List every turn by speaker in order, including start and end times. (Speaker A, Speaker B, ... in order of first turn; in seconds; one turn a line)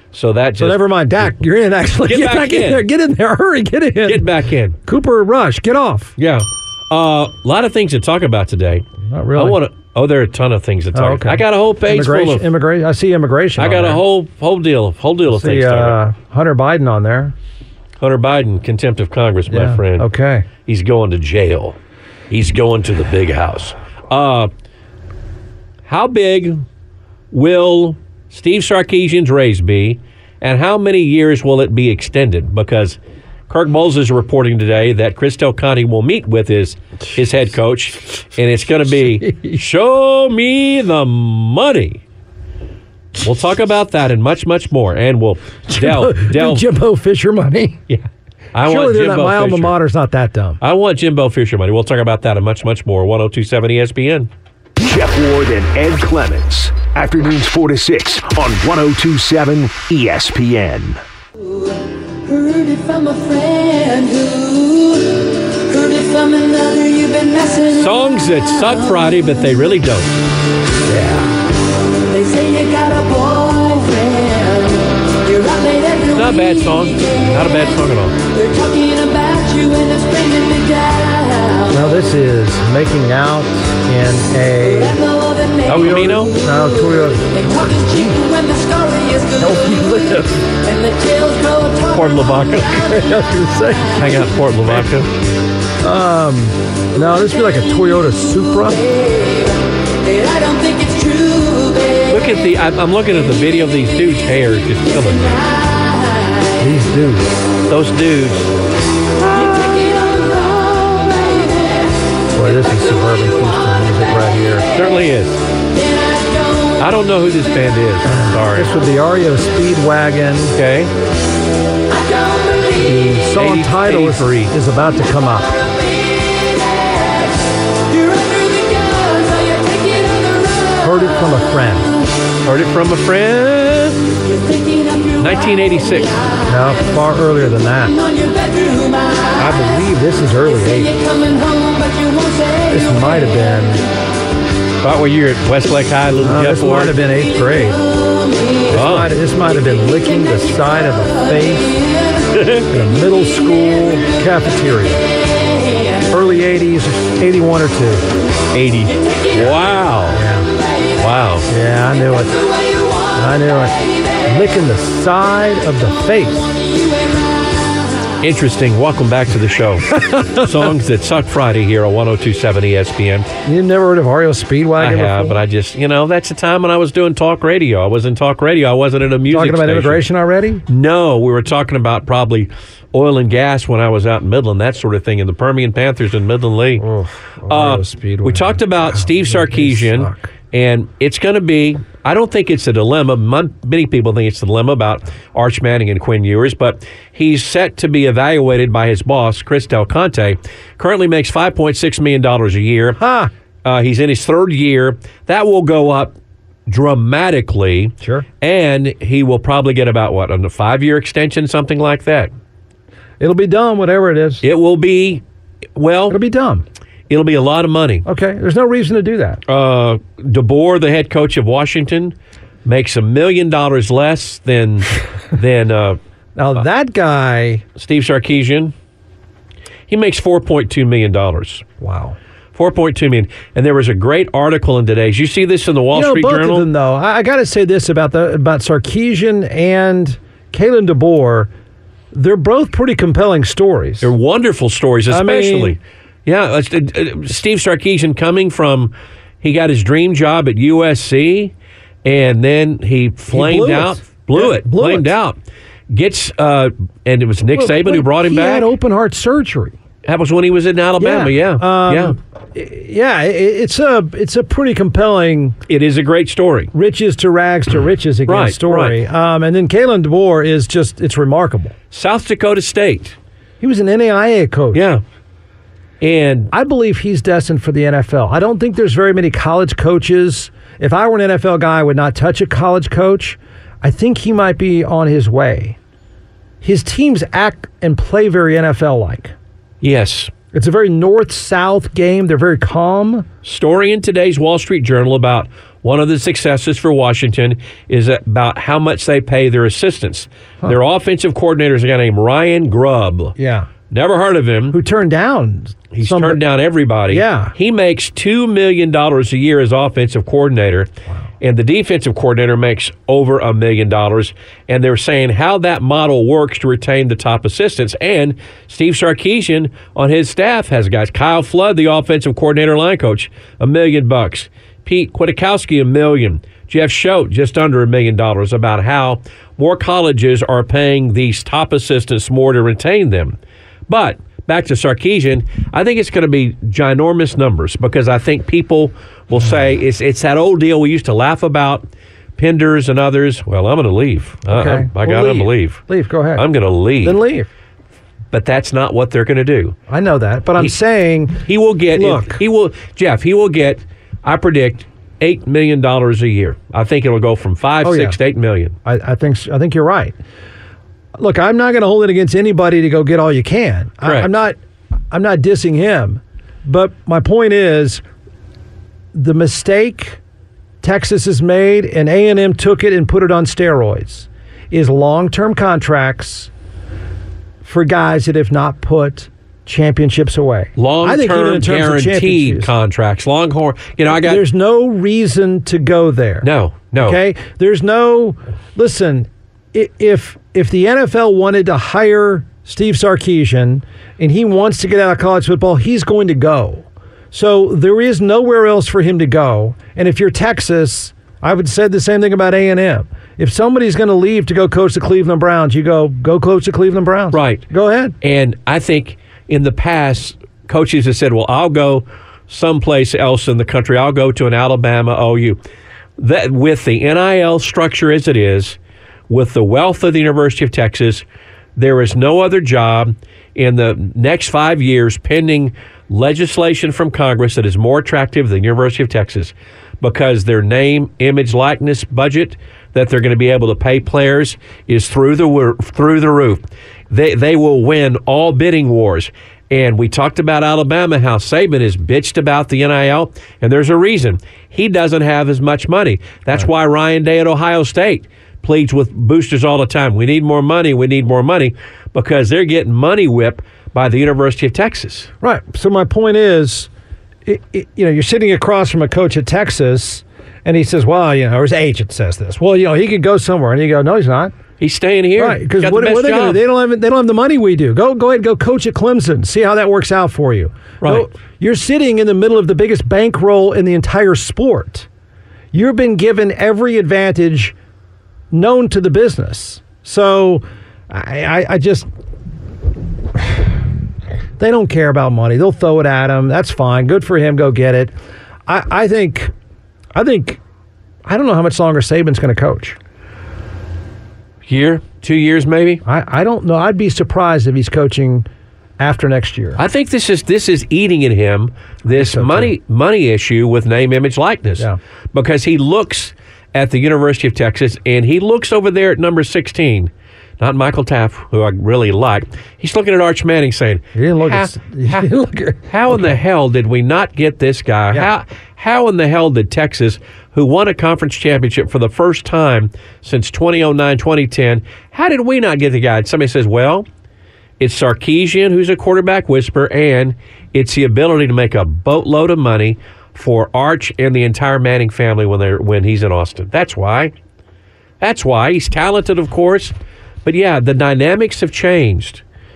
Speaker A: 0.1-1.3
Speaker B: 0.6-4.3
Speaker A: 2.0-2.8
Speaker A: 4.0-4.8
Speaker B: 4.8-6.2
Speaker A: 6.2-12.5
Speaker B: 9.0-9.6
Speaker B: 10.9-14.0
Speaker A: 13.6-16.0
Speaker B: 15.3-17.3
Speaker A: 18.0-20.1
Speaker B: 19.5-20.5
Speaker A: 20.6-21.8
Speaker A: 22.3-24.5
Speaker A: 25.9-26.6
Speaker A: 27.3-42.0
Speaker B: 39.0-39.6
Speaker A: 43.2-46.6
Speaker B: 45.7-47.8
Speaker A: 47.9-49.7
Speaker B: 48.6-50.6
Speaker A: 50.6-54.3
Speaker C: 54.8-61.0
Speaker D: 61.4-67.9
Speaker A: 67.7-70.2
Speaker B: 70.9-71.3
Speaker D: 72.1-77.2
Speaker A: 76.1-78.2
Speaker D: 78.3-81.7
Speaker B: 81.7-85.0
Speaker D: 84.8-86.7
Speaker A: 85.6-86.3
Speaker B: 85.8-88.2
Speaker D: 87.3-89.9
Speaker B: 89.4-90.4
Speaker D: 90.5-92.9
Speaker A: 91.9-92.9
Speaker B: 92.9-94.0
Speaker A: 94.0-95.1
Speaker B: 95.8-98.8
Speaker D: 100.0-102.0
Speaker A: 102.1-105.4
Speaker B: 106.6-107.3
Speaker A: 107.7-108.5
Speaker D: 109.3-111.8
Speaker B: 112.3-114.7
Speaker A: 114.7-115.4
Speaker D: 115.8-116.7
Speaker A: 116.8-118.7
Speaker B: 118.0-120.5
Speaker A: 120.5-120.9
Speaker D: 121.9-122.8
Speaker B: 122.7-125.6
Speaker A: 123.3-124.5
Speaker D: 126.2-127.4
Speaker D: 127.9-130.8
Speaker B: 130.8-131.9
Speaker A: 132.4-134.0
Speaker D: 134.2-135.4
Speaker A: 135.2-136.2
Speaker B: 136.5-138.0
Speaker D: 138.0-139.3
Speaker B: 139.3-141.0
Speaker D: 140.9-142.7
Speaker B: 142.7-143.9
Speaker A: 144.8-147.0
Speaker B: 146.2-147.8
Speaker B: 148.7-151.7
Speaker A: 148.7-149.1
Speaker A: 152.3-152.7
Speaker B: 152.7-155.1
Speaker B: 156.1-158.1
Speaker A: 158.5-160.2
Speaker B: 160.1-160.5
Speaker A: 161.0-161.5
Speaker B: 161.5-162.4
Speaker B: 163.1-166.5
Speaker A: 168.2-173.3
Speaker B: 169.9-170.5
Speaker B: 173.4-175.4
Speaker A: 174.8-180.0
Speaker B: 179.3-180.6
Speaker A: 180.7-186.9
Speaker B: 186.8-190.3
Speaker A: 187.5-203.0
Speaker B: 203.0-203.3
Speaker A: 203.6-206.1
Speaker A: 206.7-212.3
Speaker B: 208.0-208.2
Speaker B: 213.2-214.4
Speaker A: 214.4-215.2
Speaker A: 215.8-216.2
Speaker B: 216.1-216.6
Speaker A: 217.1-218.0
Speaker B: 218.0-219.4
Speaker A: 219.5-226.0
Speaker B: 226.3-227.6
Speaker A: 227.8-228.7
Speaker A: 229.9-231.6
Speaker B: 231.8-232.2
Speaker A: 232.5-236.7
Speaker B: 235.9-241.5
Speaker B: 242.1-244.1
Speaker A: 244.0-251.5
Speaker B: 245.1-245.8
Speaker A: 252.0-255.4
Speaker B: 253.3-255.1
Speaker A: 255.9-258.7
Speaker B: 257.5-259.8
Speaker A: 260.0-262.1
Speaker B: 261.0-265.6
Speaker A: 265.7-266.7
Speaker B: 266.7-271.8
Speaker A: 268.3-269.0
Speaker A: 271.9-273.1
Speaker B: 273.6-274.9
Speaker A: 274.7-275.0
Speaker A: 276.0-276.5
Speaker B: 276.5-285.8
Speaker B: 286.6-289.3
Speaker A: 289.8-290.3
Speaker B: 290.5-293.3
Speaker A: 293.4-303.3
Speaker B: 303.4-303.7
Speaker A: 303.9-304.8
Speaker B: 304.7-306.4
Speaker A: 305.9-310.9
Speaker B: 307.1-307.5
Speaker A: 311.4-333.4
Speaker A: 333.9-345.8
Speaker B: 344.5-346.5
Speaker A: 346.3-347.2
Speaker B: 347.0-347.5
Speaker A: 348.3-349.8
Speaker B: 349.9-352.4
Speaker A: 351.4-358.8
Speaker B: 357.8-358.2
Speaker B: 358.8-360.1
Speaker B: 361.2-364.6
Speaker A: 364.0-364.3
Speaker B: 365.1-368.0
Speaker B: 369.1-370.2
Speaker B: 370.8-376.5
Speaker B: 377.6-382.7
Speaker A: 380.8-384.4
Speaker B: 384.2-386.5
Speaker A: 386.4-387.2
Speaker B: 387.0-408.1
Speaker A: 407.3-407.6
Speaker A: 408.2-415.6
Speaker A: 416.2-418.8
Speaker A: 419.3-421.2
Speaker A: 421.8-455.3
Speaker B: 455.4-456.9
Speaker B: 457.4-464.5
Speaker A: 464.8-466.6
Speaker B: 465.4-475.1
Speaker A: 471.0-471.3
Speaker B: 475.7-477.7
Speaker B: 478.5-482.1
Speaker B: 484.6-488.1
Speaker B: 488.7-489.5
Speaker B: 490.1-490.6
Speaker B: 491.2-493.0
Speaker A: 494.6-496.0
Speaker B: 496.0-498.5
Speaker B: 499.0-499.8
Speaker A: 499.8-515.3
Speaker B: 502.0-502.7
Speaker B: 514.1-516.4
Speaker A: 515.9-527.0
Speaker A: 527.8-537.3
Speaker A: 538.2-539.9
Speaker A: 540.4-542.4